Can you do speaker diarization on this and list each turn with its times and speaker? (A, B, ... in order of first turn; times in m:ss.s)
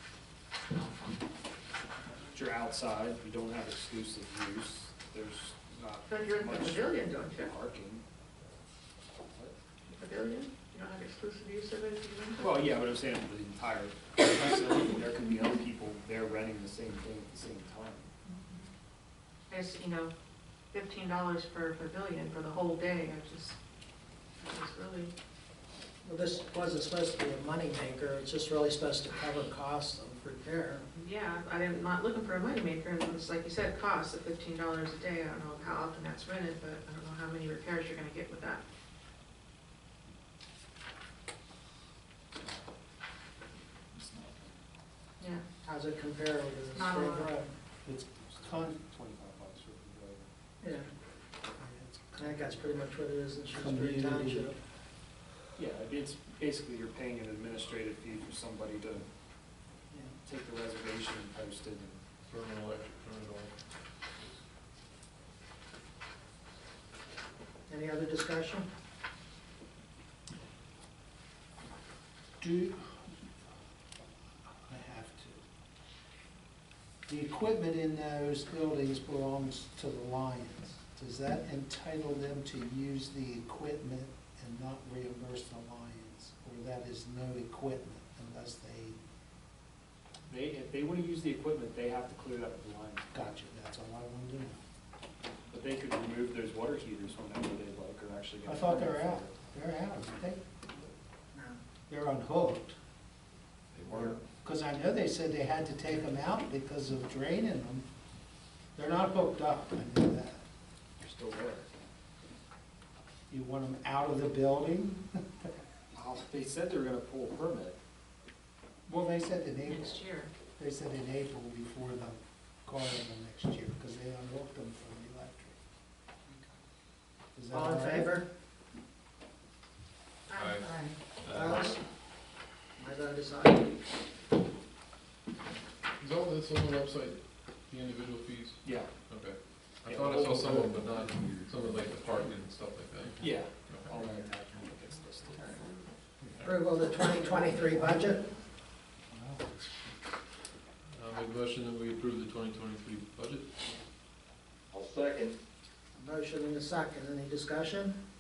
0:02.3-0:08.0 A
0:06.1-0:07.5 B
0:09.9-0:12.7 B
0:12.4-0:18.1 A
0:18.3-0:18.6 B
0:19.5-0:20.1 B
0:20.7-0:23.6 B
0:24.4-0:25.1 B
0:26.0-0:30.9 C
0:31.0-0:38.6 B
0:42.3-0:42.6 A
0:43.9-0:44.5 A
0:45.2-0:45.4 B
0:45.6-0:47.5 C
0:46.7-0:47.4 B
0:47.8-0:48.8 D
0:48.3-0:50.3 A
0:50.6-0:50.9 C
0:51.6-0:52.8 D
0:52.2-0:54.6 C
0:53.5-0:54.6 D
0:55.6-0:59.0 A
1:00.2-1:02.0 A
1:02.2-1:03.5 E
1:07.7-1:08.7 C
1:12.4-1:13.1 D
1:14.6-1:15.4 D
1:17.1-1:29.0 D
1:30.3-1:33.1 A
1:33.1-1:34.6 D
1:35.5-1:39.4 A
1:38.4-1:40.4 D
1:41.3-1:41.6 C
1:41.9-1:42.8 D
1:43.7-1:44.2 A
1:43.9-1:47.9 D
1:48.7-1:50.4 D
1:51.0-1:51.7 A
1:53.3-1:55.5 D
1:55.9-1:57.8 A
1:58.9-2:00.0 D
1:59.7-2:00.3 B
2:00.6-2:05.6 D
2:07.3-2:08.1 D
2:07.5-2:08.3 C
2:10.3-2:10.9 B
2:10.3-2:11.8 E
2:11.2-2:11.8 C
2:12.8-2:13.7 C
2:16.0-2:24.0 E
2:18.6-2:18.9 A
2:19.9-2:20.7 A
2:20.5-2:22.2 F
2:23.2-2:25.7 A
2:26.4-2:28.2 C
2:30.9-2:33.5 E
2:34.7-2:35.4 F
2:36.0-2:38.0 C